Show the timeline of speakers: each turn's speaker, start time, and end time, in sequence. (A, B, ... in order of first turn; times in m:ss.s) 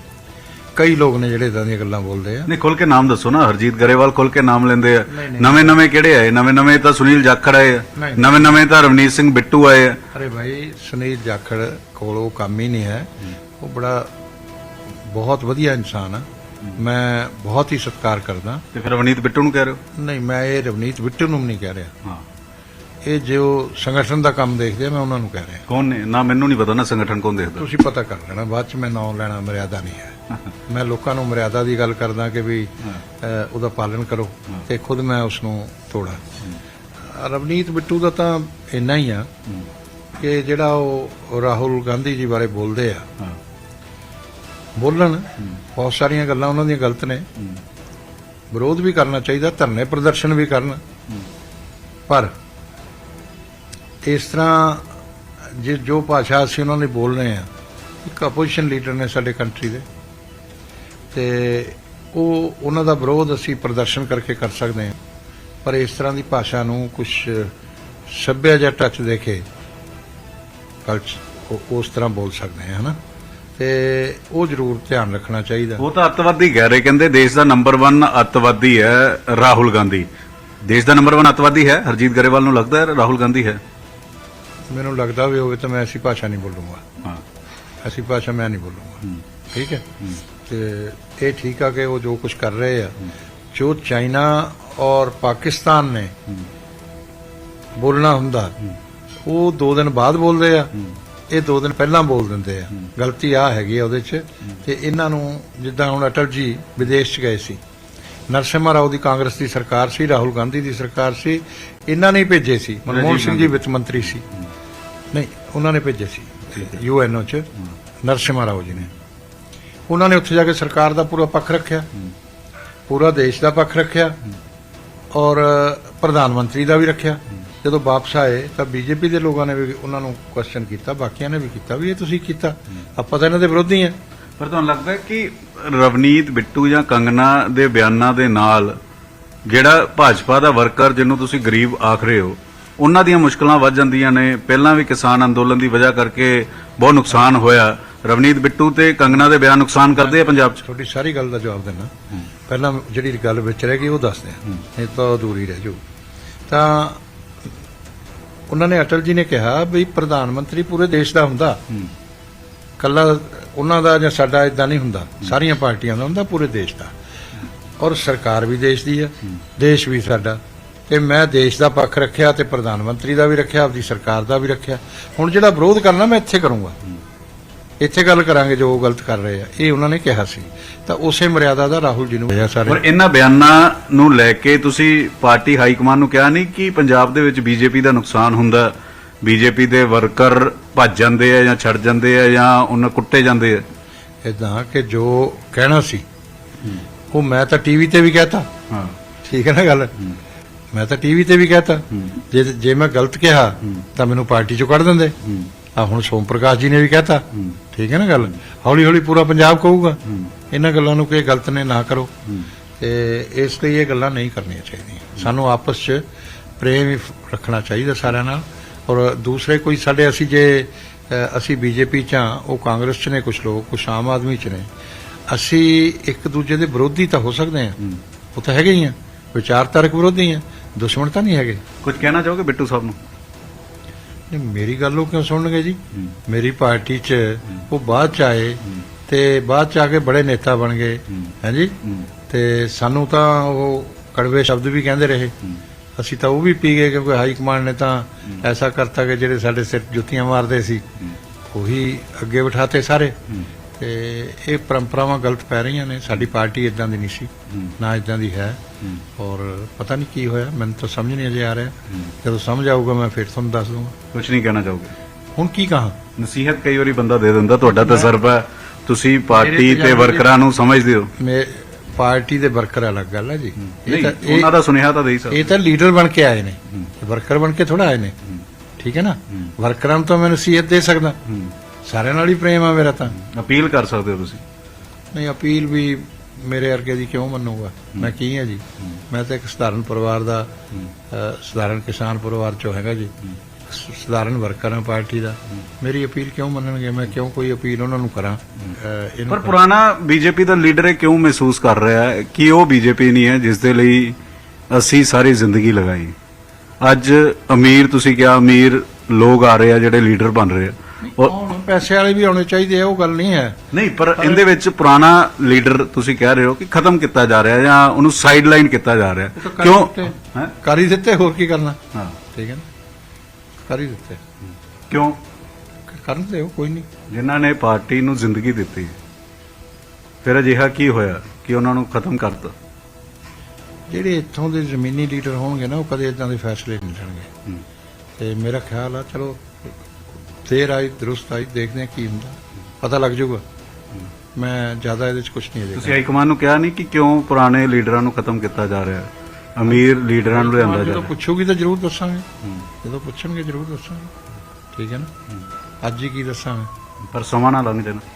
0:00.8-0:02.5 A
0:02.5-0:10.0 B
0:05.1-0:05.8 A
0:08.0-0:08.6 A
0:10.1-0:14.1 A
0:15.1-0:18.6 A
0:18.7-0:19.8 B
0:20.0-0:21.9 A
0:23.0-0:25.6 A
0:25.7-0:27.7 B
0:27.6-0:30.2 A
0:30.7-0:36.2 A
0:37.0-0:39.3 A
0:40.2-0:43.1 A
0:44.8-0:47.3 A
0:48.5-0:50.8 A
0:52.1-0:52.3 A
0:54.0-0:54.9 A
0:55.5-0:57.5 A
0:58.0-0:59.9 A
1:01.1-1:05.0 A
1:05.6-1:07.5 A
1:08.1-1:09.4 A
1:10.8-1:13.0 A
1:13.6-1:15.8 A
1:15.8-1:20.1 B
1:20.6-1:23.6 B
1:24.7-1:26.8 A
1:27.8-1:29.9 A
1:30.4-1:33.0 A
1:33.5-1:36.2 A
1:37.8-1:38.6 A
1:39.2-1:40.7 A
1:41.3-1:47.6 A
1:48.3-1:54.2 A
1:52.9-1:54.5 B
1:55.1-1:57.5 A
1:58.0-1:58.9 A
1:59.9-2:01.9 A
2:02.9-2:04.2 A
2:05.1-2:14.0 A
2:14.4-2:18.8 B
2:19.5-2:30.6 B
2:29.9-2:31.9 A
2:32.5-2:35.8 A
2:36.5-2:37.0 A
2:38.5-2:41.6 A
2:42.8-2:46.9 A
2:47.8-2:56.8 A
2:57.8-3:02.8 A
3:02.7-3:13.6 B
3:14.2-3:16.0 A
3:17.1-3:18.5 A
3:18.7-3:19.0 B
3:19.2-3:19.9 A
3:20.7-3:25.2 A
3:25.2-3:25.5 B
3:25.7-3:32.1 A
3:30.1-3:30.3 B
3:32.8-3:36.0 A
3:36.6-3:44.7 A
3:45.3-3:47.8 A
3:48.4-3:51.6 A
3:51.8-3:53.0 B
3:54.3-4:01.8 A
4:02.3-4:05.4 A
4:06.0-4:10.9 A
4:11.5-4:13.2 A
4:13.8-4:18.6 A
4:19.2-4:24.0 A
4:24.1-4:24.9 B
4:25.4-4:26.0 A
4:26.2-4:31.1 B
4:27.8-4:28.1 A
4:29.3-4:30.3 A
4:31.2-4:34.5 A
4:33.6-4:35.5 B
4:35.3-4:38.2 A
4:38.8-4:41.2 A
4:41.3-4:41.5 B
4:41.9-4:43.2 A
4:43.2-4:44.4 B
4:45.1-4:50.5 A
4:51.1-4:53.1 A
4:53.7-4:59.6 A
4:59.3-5:04.2 B
5:04.7-5:06.2 B
5:06.8-5:11.3 B
5:11.0-5:13.6 A
5:13.7-5:20.5 B
5:14.2-5:14.4 A
5:19.4-5:21.8 A
5:22.3-5:22.7 A
5:23.7-5:24.2 A
5:24.9-5:25.2 B
5:25.9-5:26.9 A
5:27.1-5:29.0 B
5:30.2-5:32.6 B
5:33.9-5:37.3 A
5:38.2-5:39.7 A
5:40.4-5:43.4 A
5:44.4-5:46.0 A
5:45.8-5:51.1 B
5:49.7-5:52.3 A
5:52.8-5:54.1 A
5:54.7-5:55.1 A
5:55.8-5:56.7 A
5:57.0-5:58.0 B